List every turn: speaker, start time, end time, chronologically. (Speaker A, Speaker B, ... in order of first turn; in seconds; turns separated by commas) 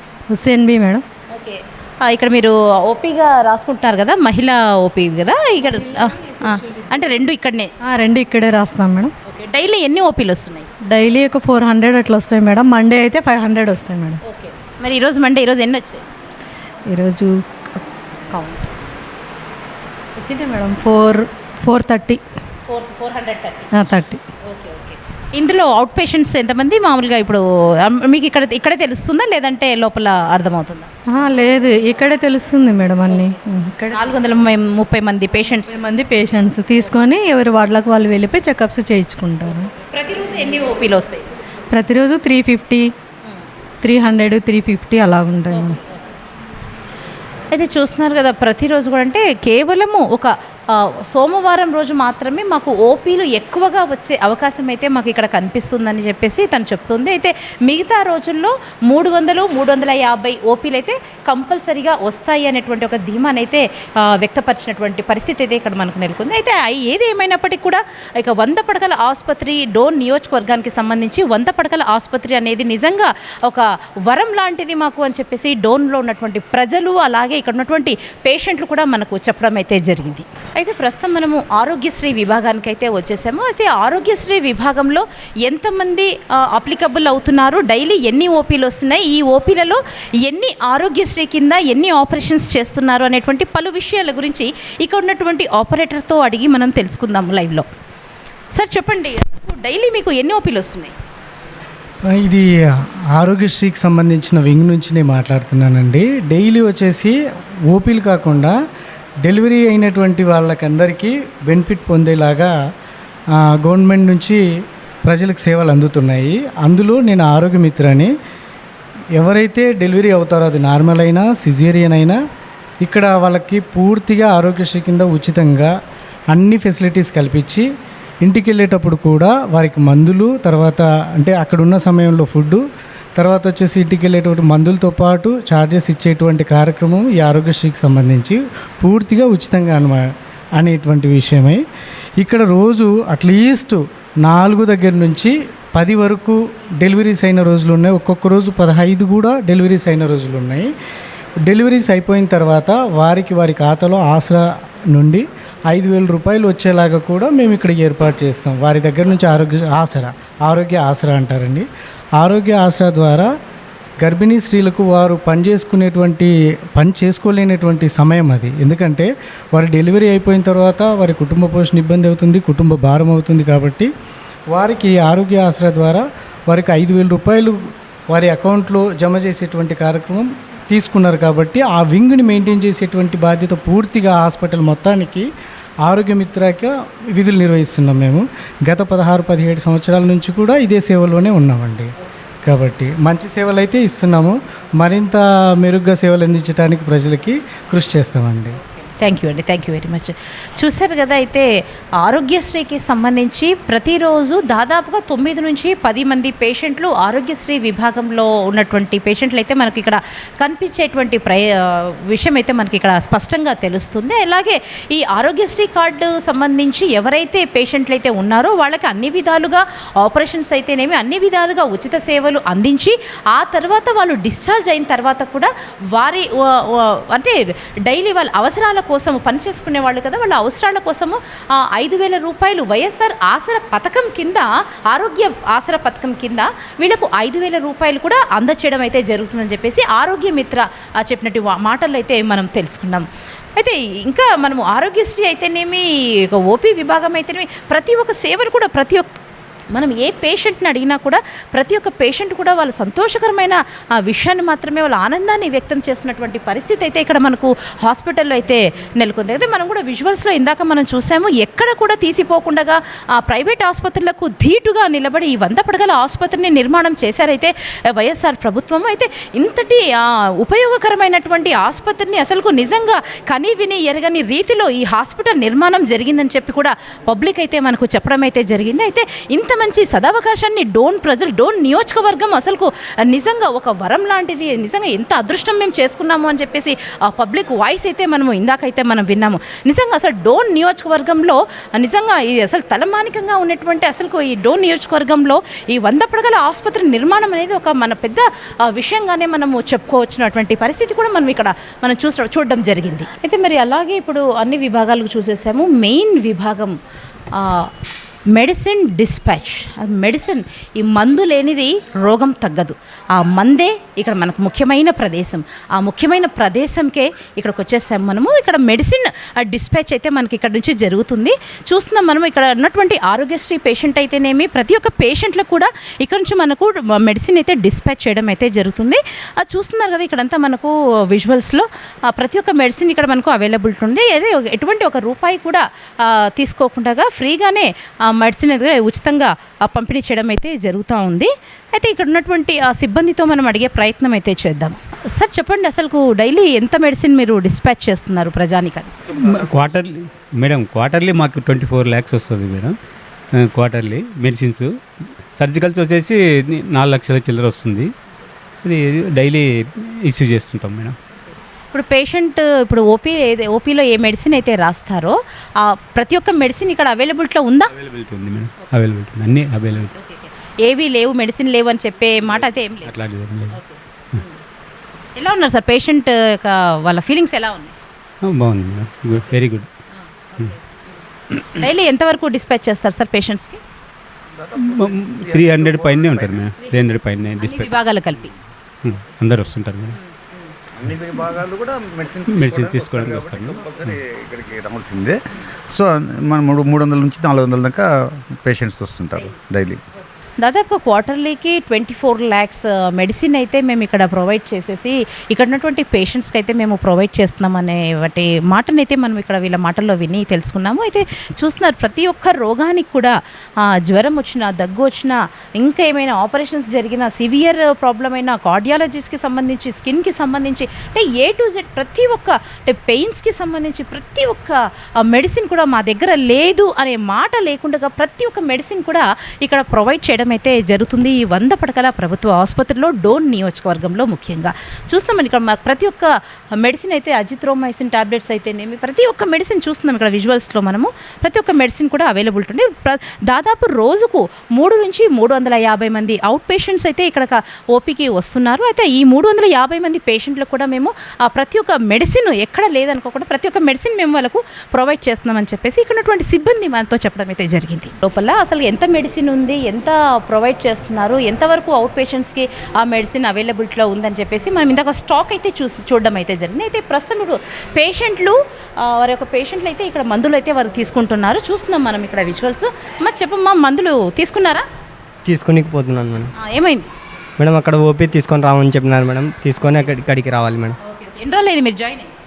Speaker A: 0.3-1.0, Speaker B: 1.3-7.7, Speaker A: 7.8-9.1, Speaker B: 9.3-10.7, Speaker A: 10.9-14.2, Speaker B: 14.3-16.0, Speaker A: 16.9-17.4, Speaker A: 20.4-22.2, Speaker B: 22.7-23.7, Speaker A: 23.8-24.2, Speaker B: 24.4-30.9, Speaker A: 31.1-34.0, Speaker B: 33.9-35.7, Speaker A: 35.7-39.7, Speaker B: 39.9-41.3, Speaker A: 41.7-42.9, Speaker A: 43.8-45.8, Speaker B: 47.5-97.7, Speaker B: 98.5-100.9, Speaker C: 102.1-102.5, Speaker C: 103.2-107.2, Speaker C: 107.7-108.5, Speaker C: 109.2-112.5, Speaker C: 113.4-114.4, Speaker C: 115.1-118.1, Speaker C: 119.2-122.2, Speaker C: 122.8-125.7, Speaker C: 126.3-127.7, Speaker C: 128.2-132.6, Speaker C: 133.2-140.0, Speaker C: 140.6-141.6, Speaker C: 142.2-150.7, Speaker C: 151.5-161.7, Speaker C: 162.2-163.3, Speaker C: 164.0-173.9, Speaker C: 174.5-185.3, Speaker C: 185.9-191.9, Speaker C: 192.4-198.6, Speaker B: 199.0-227.3, Speaker B: 227.9-243.1, Speaker B: 243.6-249.1, Speaker B: 249.7-306.8, Speaker B: 307.3-307.7, Speaker B: 308.3-348.9, Speaker D: 349.2-352.8, Speaker D: 353.4-354.7, Speaker D: 355.4-357.9, Speaker D: 358.6-361.0, Speaker B: 361.7-367.7, Speaker D: 367.7-369.9, Speaker B: 369.9-372.9, Speaker D: 372.9-373.6, Speaker B: 373.5-374.4, Speaker B: 375.2-377.8, Speaker D: 378.3-379.7, Speaker B: 380.3-380.6, Speaker B: 381.5-383.6, Speaker E: 384.3-386.5, Speaker D: 384.6-387.8, Speaker B: 387.4-388.3, Speaker D: 388.8-390.0, Speaker E: 390.8-395.2, Speaker D: 392.3-394.0, Speaker E: 395.7-399.8, Speaker B: 400.4-474.6, Speaker F: 475.3-476.3, Speaker B: 476.4-476.9, Speaker F: 477.4-480.8, Speaker B: 480.8-482.1